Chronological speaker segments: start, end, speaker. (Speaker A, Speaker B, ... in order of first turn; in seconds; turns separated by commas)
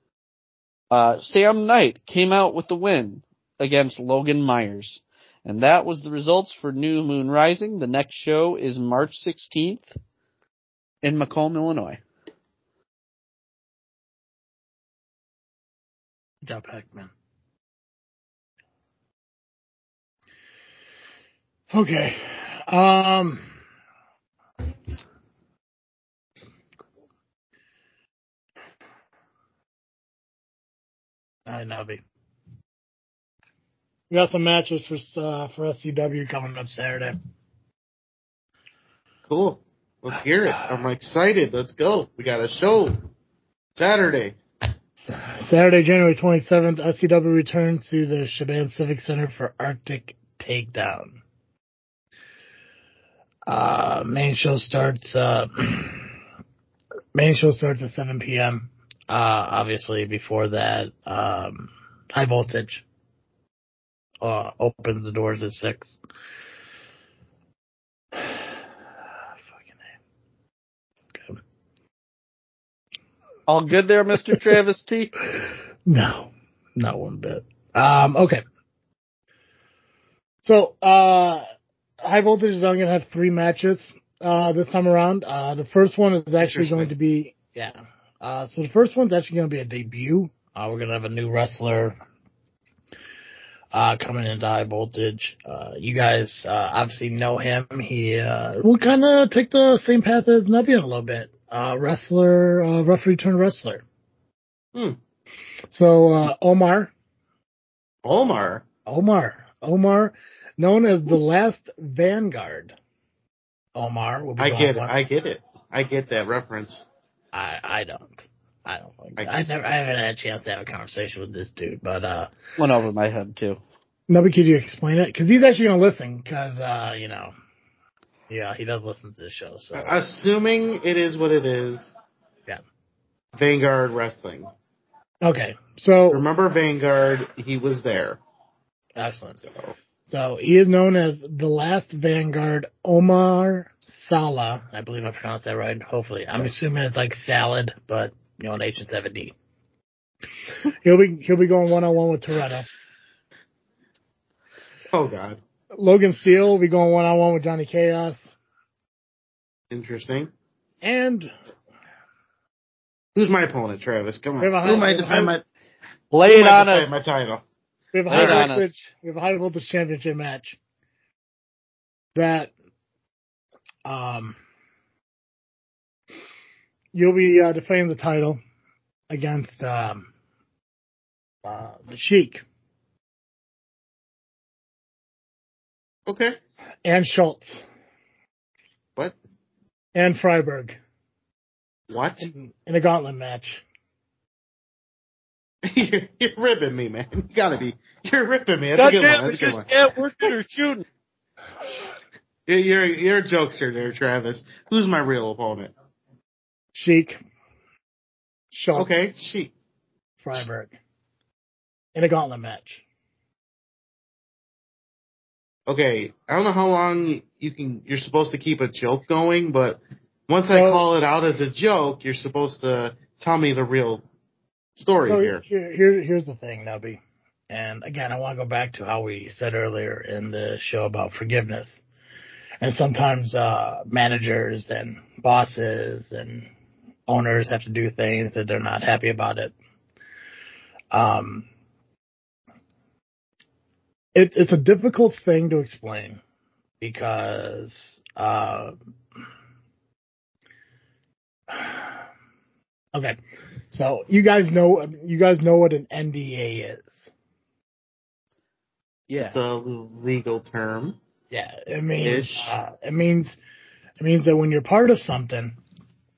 Speaker A: 0.9-9.9, Speaker A: 11.0-12.0, Speaker B: 16.4-17.1, Speaker B: 21.7-23.5, Speaker B: 31.5-32.0, Speaker B: 34.1-37.1, Speaker C: 39.3-43.0, Speaker C: 43.8-44.4, Speaker B: 45.1-51.2, Speaker B: 53.5-56.1, Speaker B: 57.1-62.8, Speaker B: 64.2-66.0, Speaker A: 73.5-75.1, Speaker B: 75.8-78.4, Speaker B: 80.4-81.4, Speaker B: 82.0-92.0, Speaker C: 86.4-86.9, Speaker B: 93.7-103.8, Speaker B: 105.7-106.9, Speaker C: 108.0-108.6, Speaker B: 108.8-112.7, Speaker B: 113.7-114.9, Speaker C: 114.4-116.8, Speaker B: 117.3-122.3, Speaker A: 122.6-123.6, Speaker B: 124.1-127.3, Speaker B: 128.3-130.0, Speaker C: 129.7-131.9, Speaker C: 133.3-134.5, Speaker B: 135.2-136.2, Speaker C: 136.1-138.2, Speaker B: 138.9-139.5, Speaker B: 140.0-149.3, Speaker B: 150.8-152.7, Speaker C: 154.9-155.4, Speaker B: 155.7-158.3, Speaker C: 159.7-160.3, Speaker B: 160.8-161.3, Speaker C: 163.1-165.4, Speaker B: 164.4-165.3, Speaker A: 166.1-167.1, Speaker C: 166.2-167.4, Speaker B: 167.9-170.6, Speaker A: 168.1-168.7, Speaker C: 168.1-168.5, Speaker B: 172.2-172.5, Speaker B: 173.8-174.4, Speaker B: 176.9-178.4, Speaker B: 179.1-180.1, Speaker B: 181.4-182.4, Speaker C: 186.1-186.4, Speaker B: 186.8-187.6, Speaker B: 189.9-190.8, Speaker C: 191.9-192.3, Speaker B: 192.2-193.6, Speaker C: 195.6-199.7, Speaker A: 198.8-200.8, Speaker C: 202.5-205.7, Speaker B: 206.7-207.2, Speaker B: 208.5-208.9, Speaker C: 208.7-209.5, Speaker B: 210.2-210.7, Speaker B: 211.9-212.8, Speaker C: 215.7-224.0, Speaker B: 220.5-220.8, Speaker C: 224.8-225.4, Speaker B: 225.0-231.8, Speaker B: 232.6-236.5, Speaker B: 237.1-239.5, Speaker B: 240.9-241.5, Speaker B: 244.1-246.2, Speaker B: 246.8-248.7, Speaker B: 253.7-257.1, Speaker A: 259.1-259.4, Speaker C: 259.2-261.0, Speaker B: 261.3-263.4, Speaker C: 262.0-262.5, Speaker B: 264.0-265.6